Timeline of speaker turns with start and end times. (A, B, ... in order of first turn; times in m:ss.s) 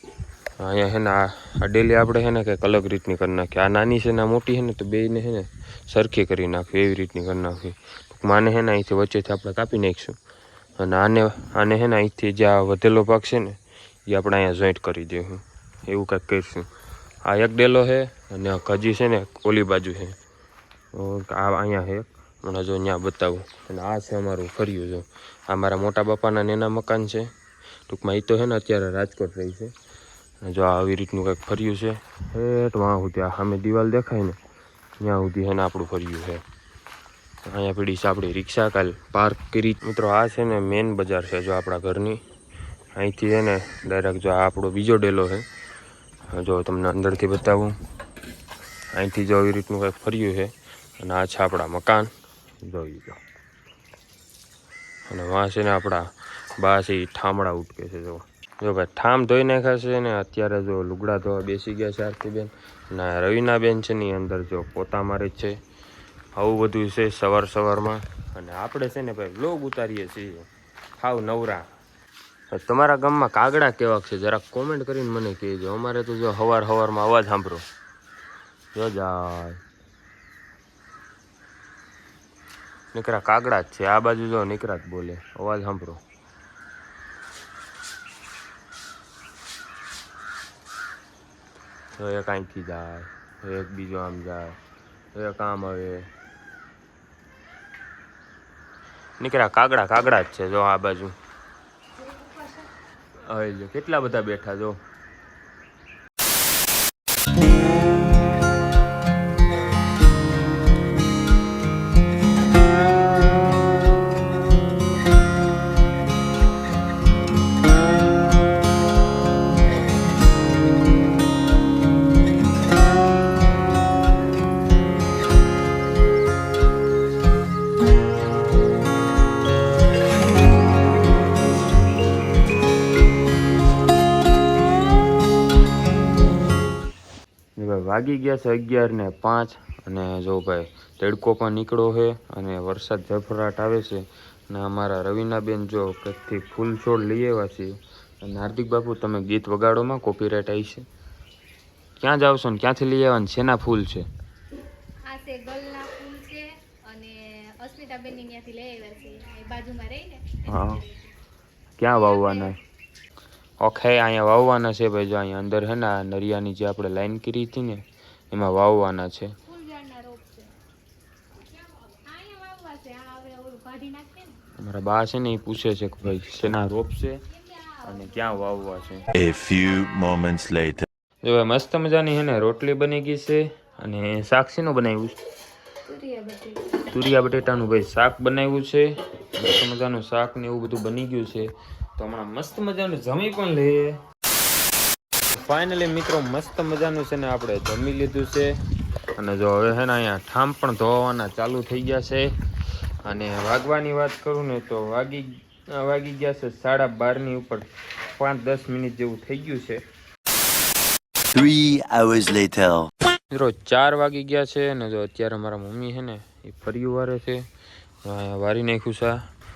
0:00.6-0:10.2 A
0:10.8-0:16.7 A
0:17.2-0:20.2 A
0:20.9-0:27.3 A
0:27.9-0:29.7 A
0:30.4-0:34.4 A
0:35.0-0:36.4 A
0:37.5-0:42.2 A
0:43.0-0:45.5 A
0:46.3-0:47.8 A
0:48.9-0:52.1 A
0:52.6-0:53.2 A
0:55.1-1:05.6 A
1:06.4-1:11.7 A
1:12.5-1:17.6 A
1:18.8-1:19.6 A
1:22.9-1:26.0 A
1:32.0-1:34.6 A
1:35.2-1:36.1 A
1:39.2-1:41.1 A
1:42.0-1:42.7 B
1:43.2-1:44.8 A
2:17.6-2:30.9 A
2:32.0-2:34.1 A
2:35.1-2:41.1 B
2:40.5-2:40.8 A
2:41.8-2:42.6 A
2:41.9-2:42.5 B
2:43.6-2:49.4 A
2:49.5-2:50.5 B
2:51.5-2:54.4 B
2:54.6-2:57.2 A
2:57.5-2:57.8 B
2:57.8-2:59.1 A
2:59.1-3:00.9 C
3:01.2-3:05.2 A
3:05.9-3:06.6 B
3:06.9-3:14.0 A
3:15.3-3:18.6 A
3:19.2-3:22.3 A
3:23.0-3:29.8 A
3:31.3-3:32.9 C
3:33.3-3:37.5 A
3:38.0-3:39.2 A